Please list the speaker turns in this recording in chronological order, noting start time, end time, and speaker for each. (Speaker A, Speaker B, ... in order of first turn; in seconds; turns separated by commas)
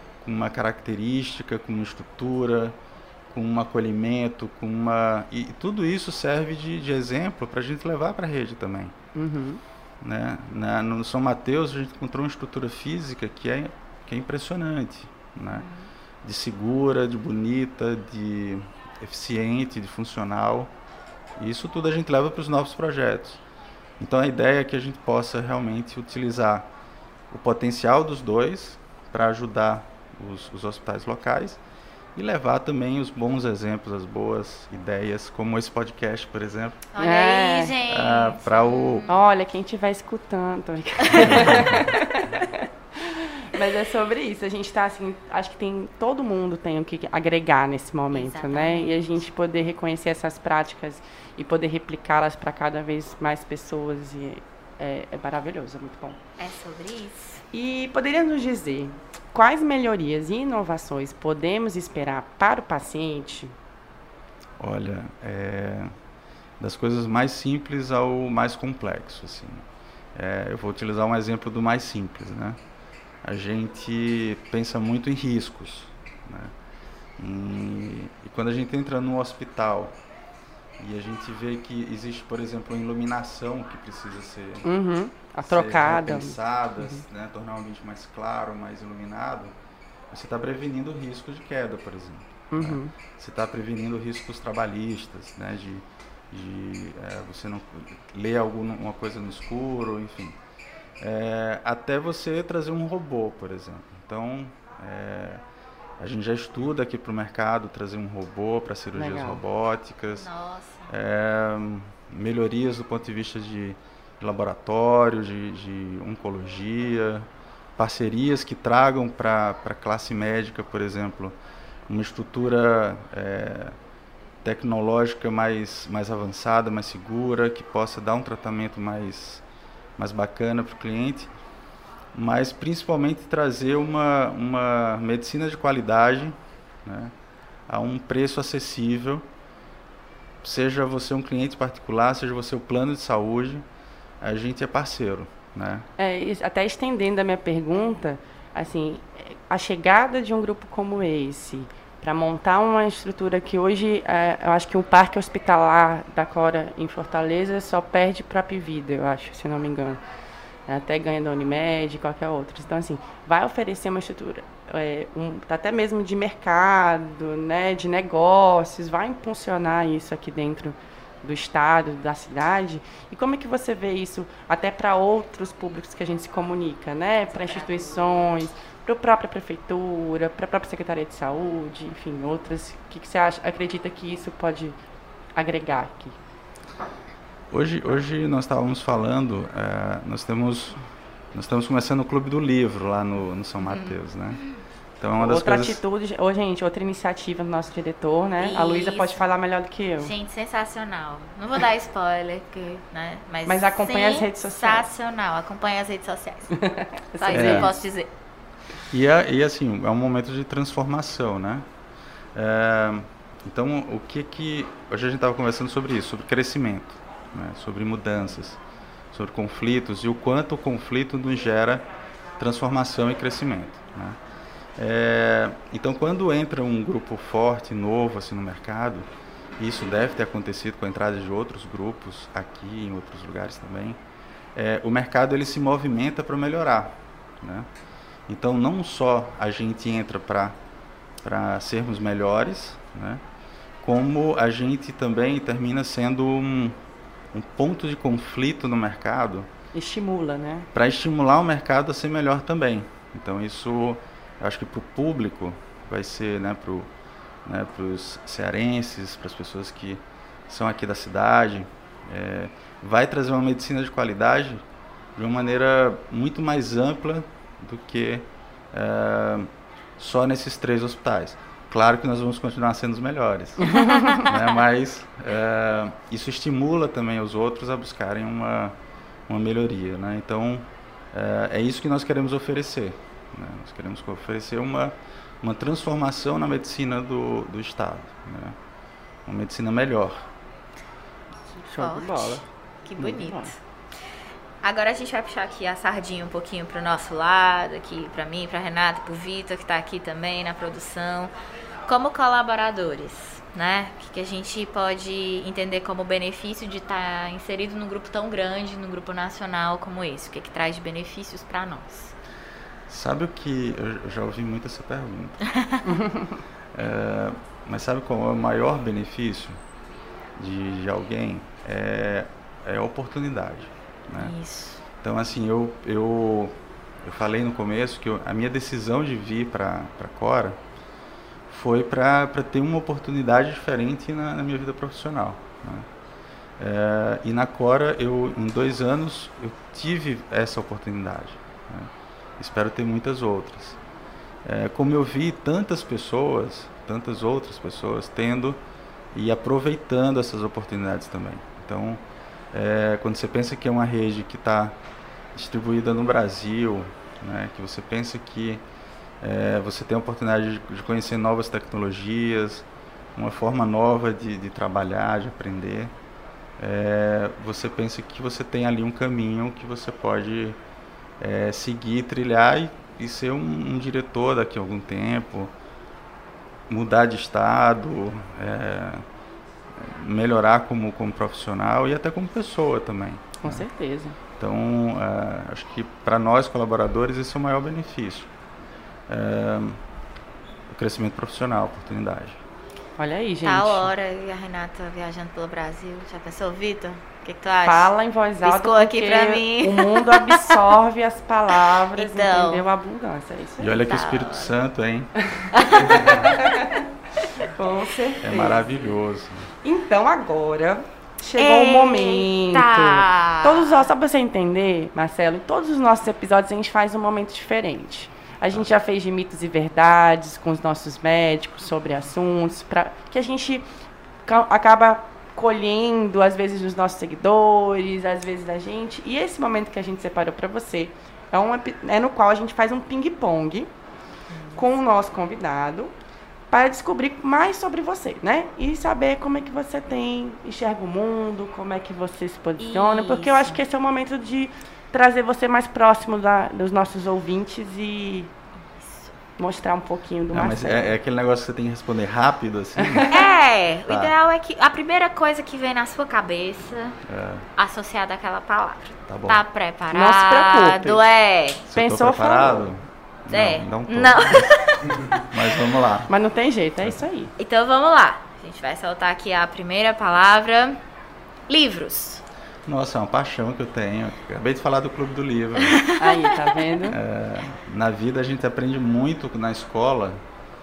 Speaker A: 0.2-2.8, Speaker A: 3.3-8.9, Speaker B: 9.1-9.6, Speaker A: 10.0-15.7, Speaker C: 15.6-15.9, Speaker A: 16.2-20.7, Speaker A: 21.4-23.4, Speaker A: 24.0-26.7, Speaker A: 27.3-31.6, Speaker A: 32.1-36.8, Speaker C: 36.9-39.1, Speaker B: 37.0-37.7, Speaker A: 37.9-39.1, Speaker B: 39.1-56.2, Speaker A: 41.2-41.9, Speaker C: 48.1-49.1, Speaker C: 56.4-57.4, Speaker B: 57.5-63.5, Speaker A: 64.6-65.9, Speaker A: 66.6-72.6, Speaker A: 73.2-76.5, Speaker A: 77.2-80.0, Speaker A: 80.8-84.7, Speaker B: 84.6-87.0, Speaker A: 85.4-89.5, Speaker A: 90.1-100.3, Speaker B: 92.5-92.9, Speaker A: 101.0-105.4, Speaker A: 106.0-110.3, Speaker B: 108.9-109.4, Speaker C: 110.1-110.9, Speaker A: 110.9-121.4, Speaker A: 121.9-123.8, Speaker A: 124.4-129.4, Speaker A: 130.0-131.3, Speaker A: 132.1-137.1, Speaker A: 137.7-139.3, Speaker A: 140.4-143.7, Speaker A: 144.2-145.8, Speaker B: 146.0-160.0, Speaker B: 160.7-184.8, Speaker C: 177.4-178.3, Speaker B: 185.3-186.2, Speaker A: 187.5-190.8, Speaker A: 191.3-194.4, Speaker C: 193.7-193.9, Speaker A: 195.0-195.8, Speaker B: 195.2-200.1, Speaker C: 198.4-199.2, Speaker C: 200.0-206.6, Speaker B: 203.4-204.9, Speaker B: 206.6-207.7, Speaker C: 207.2-208.1, Speaker A: 207.3-207.7, Speaker A: 208.9-211.7, Speaker A: 212.3-218.6, Speaker A: 219.1-221.8, Speaker A: 222.4-224.2, Speaker A: 224.8-229.1, Speaker A: 229.6-234.0, Speaker A: 234.5-237.7, Speaker A: 238.3-240.6, Speaker A: 241.2-243.2, Speaker A: 243.8-246.8, Speaker A: 247.3-249.5, Speaker B: 249.7-250.7, Speaker A: 250.7-256.9, Speaker A: 257.4-264.6, Speaker A: 265.1-278.7, Speaker B: 273.6-274.2, Speaker C: 274.1-274.3, Speaker A: 279.3-288.6, Speaker A: 289.2-290.3, Speaker C: 291.6-293.6, Speaker B: 291.7-292.4, Speaker B: 293.0-293.5, Speaker C: 294.6-301.3, Speaker C: 301.9-312.1, Speaker A: 312.9-315.4, Speaker C: 315.5-315.9, Speaker B: 315.9-316.3, Speaker A: 316.7-319.6, Speaker A: 320.4-324.3, Speaker C: 324.2-324.8, Speaker A: 325.0-330.6, Speaker A: 331.5-335.9, Speaker A: 336.6-343.8, Speaker A: 344.4-348.6, Speaker A: 349.1-352.0, Speaker A: 352.5-354.8, Speaker A: 355.3-358.6, Speaker A: 359.2-365.9, Speaker A: 366.6-370.6, Speaker A: 371.2-375.5, Speaker A: 376.7-379.0, Speaker A: 379.8-383.6, Speaker B: 383.4-384.2, Speaker A: 384.4-388.3, Speaker A: 389.1-389.8, Speaker A: 390.7-392.4, Speaker B: 393.0-393.9, Speaker C: 393.4-400.7, Speaker B: 397.6-403.8, Speaker C: 401.9-402.7, Speaker A: 403.6-405.1, Speaker C: 403.6-404.5, Speaker B: 405.4-406.8, Speaker C: 405.6-406.5, Speaker B: 407.3-408.8, Speaker A: 408.2-409.5, Speaker B: 409.6-423.7, Speaker C: 411.4-413.9, Speaker B: 424.2-433.7, Speaker C: 434.3-434.6, Speaker B: 434.5-435.9, Speaker B: 436.5-448.3, Speaker C: 442.6-443.6, Speaker C: 448.6-449.1, Speaker B: 449.4-450.9, Speaker A: 450.3-453.1, Speaker B: 452.8-453.1, Speaker C: 453.1-457.0, Speaker A: 453.9-454.1, Speaker A: 457.1-457.4, Speaker C: 457.6-461.6, Speaker A: 459.1-459.4, Speaker B: 459.9-461.0, Speaker A: 461.6-464.6, Speaker B: 461.7-462.7, Speaker C: 463.3-464.9, Speaker A: 465.3-466.1, Speaker B: 466.1-467.3, Speaker C: 467.4-470.8, Speaker C: 471.5-472.2, Speaker A: 472.6-475.8, Speaker C: 475.7-476.3, Speaker B: 476.0-477.0, Speaker A: 476.9-480.2